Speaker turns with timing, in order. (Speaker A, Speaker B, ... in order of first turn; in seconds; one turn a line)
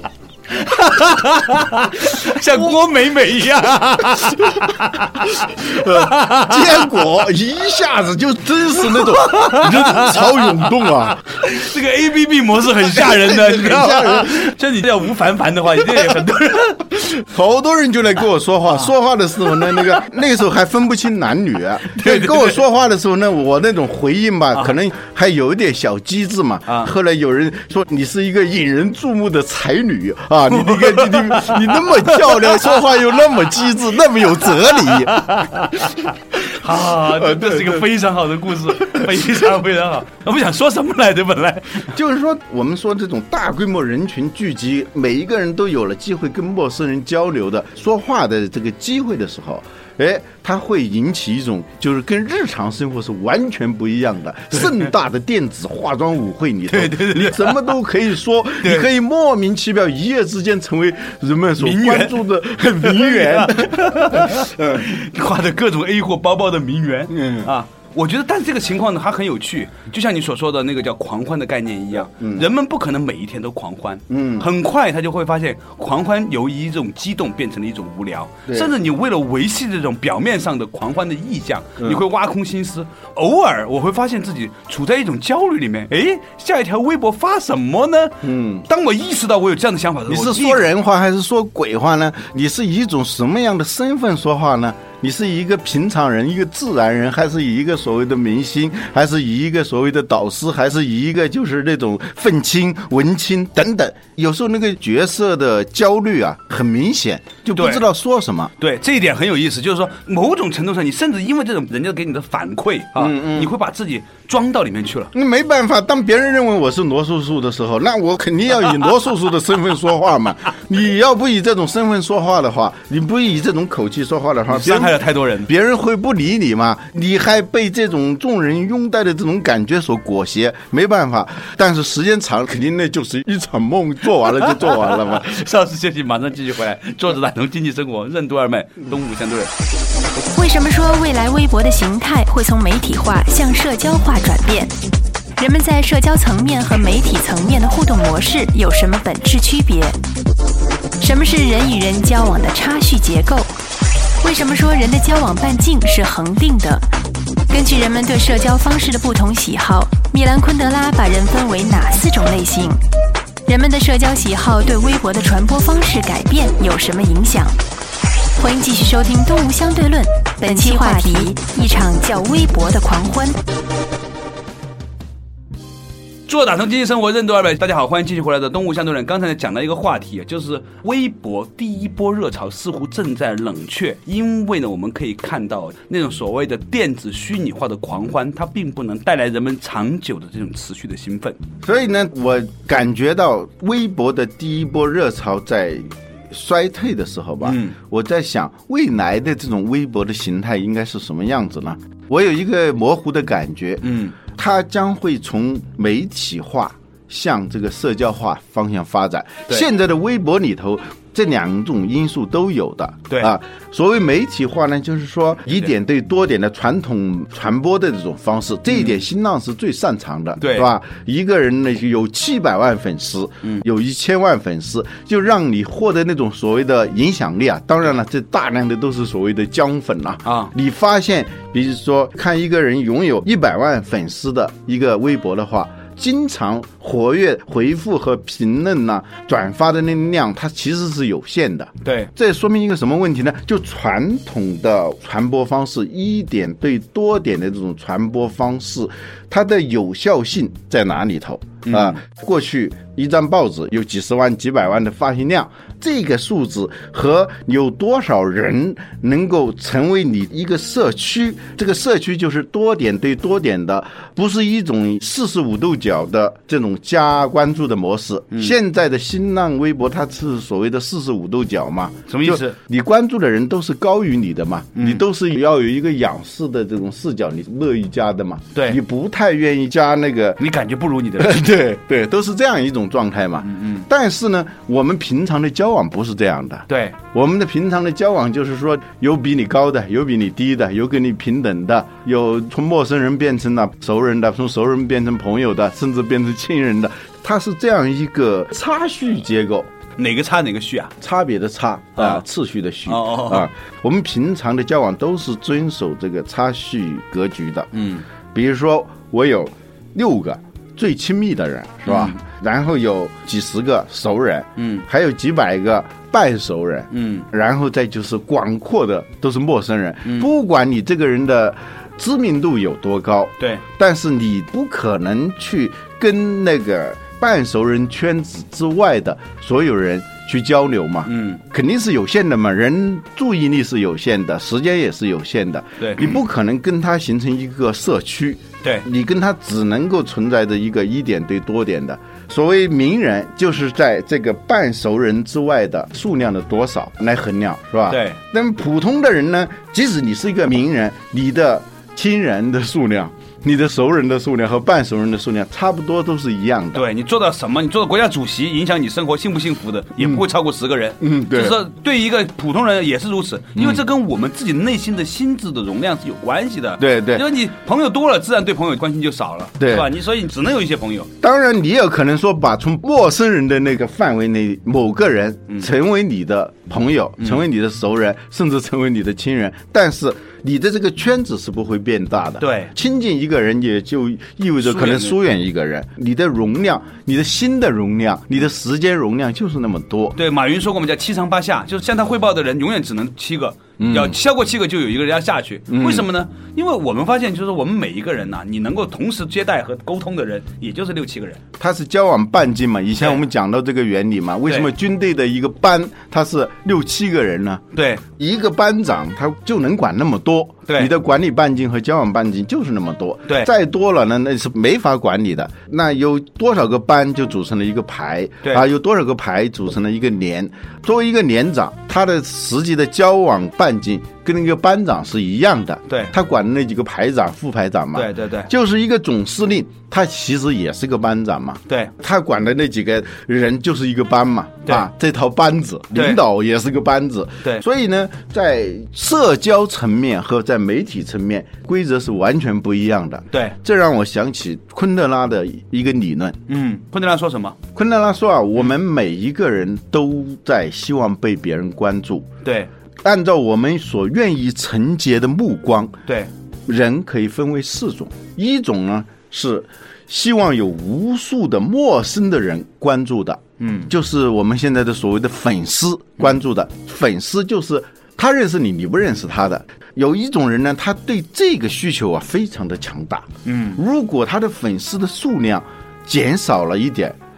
Speaker A: 0.5-6.9
Speaker B: 5.4-11.2
Speaker A: 8.9-10.7
Speaker A: 11.3-17.1
Speaker B: 12.8-14.5
Speaker B: 15.8-16.2
Speaker B: 17.0-35.4
Speaker A: 19.5-20.0
Speaker A: 21.9-22.6
Speaker A: 30.5-32.9
Speaker A: 34.4-41.9
Speaker B: 37.0-37.9
Speaker B: 41.9-64.9
Speaker A: 56.7-57.8
Speaker A: 58.6-58.9
Speaker A: 61.6-62.2
Speaker A: 62.8-90.7
Speaker B: 67.1-67.5
Speaker B: 72.2-72.5
Speaker B: 74.1-74.5
Speaker B: 78.5-78.7
Speaker B: 88.2-88.7
Speaker B: 90.1-108.5
Speaker A: 107.6-107.8
Speaker A: 108.6-115.1
Speaker B: 113.0-113.5
Speaker B: 115.1-135.4
Speaker A: 124.5-125.5
Speaker A: 134.9-139.5
Speaker C: 140.3-144.7
Speaker C: 145.4-150.0
Speaker C: 151.0-153.5
Speaker C: 154.2-156.9
Speaker C: 157.5-162.8
Speaker C: 163.5-167.6
Speaker C: 168.4-173.4
Speaker A: 176.3-191.4
Speaker B: 191.6-280.4
Speaker A: 197.4-197.8
Speaker A: 203.8-204.2
Speaker A: 218.7-219.0
Speaker A: 220.4-220.7
Speaker A: 230.2-230.5
Speaker A: 241.8-242.1
Speaker A: 251.7-252.0
Speaker A: 272.1-272.6
Speaker A: 274.8-275.0
Speaker A: 278.6-278.8
Speaker A: 280.4-281.4
Speaker B: 281.2-299.7
Speaker A: 283.4-283.9
Speaker A: 286.7-287.0
Speaker A: 300.0-300.9
Speaker B: 301.0-307.7
Speaker A: 302.0-302.2
Speaker A: 302.9-303.5
Speaker A: 307.7-308.1
Speaker B: 308.3-356.9
Speaker A: 311.9-312.2
Speaker A: 314.6-314.8
Speaker A: 316.9-317.3
Speaker A: 331.1-331.4
Speaker A: 335.8-336.2
Speaker A: 347.9-348.2
Speaker A: 356.8-371.1
Speaker B: 360.0-360.2
Speaker B: 361.0-361.6
Speaker B: 363.6-363.8
Speaker B: 366.8-367.3
Speaker B: 369.6-369.9
Speaker B: 371.2-390.2
Speaker A: 382.4-382.7
Speaker A: 384.6-385.1
Speaker A: 390.2-401.4
Speaker B: 393.8-394.2
Speaker B: 395.7-396.1
Speaker B: 401.6-407.6
Speaker A: 403.0-403.2
Speaker A: 407.7-408.0
Speaker B: 408.2-446.4
Speaker A: 427.9-428.5
Speaker A: 435.9-436.2
Speaker A: 446.5-447.6
Speaker B: 447.8-452.3
Speaker A: 452.4-452.7
Speaker B: 453.0-456.0
Speaker B: 456.7-477.2
Speaker A: 463.6-463.9
Speaker A: 473.4-473.8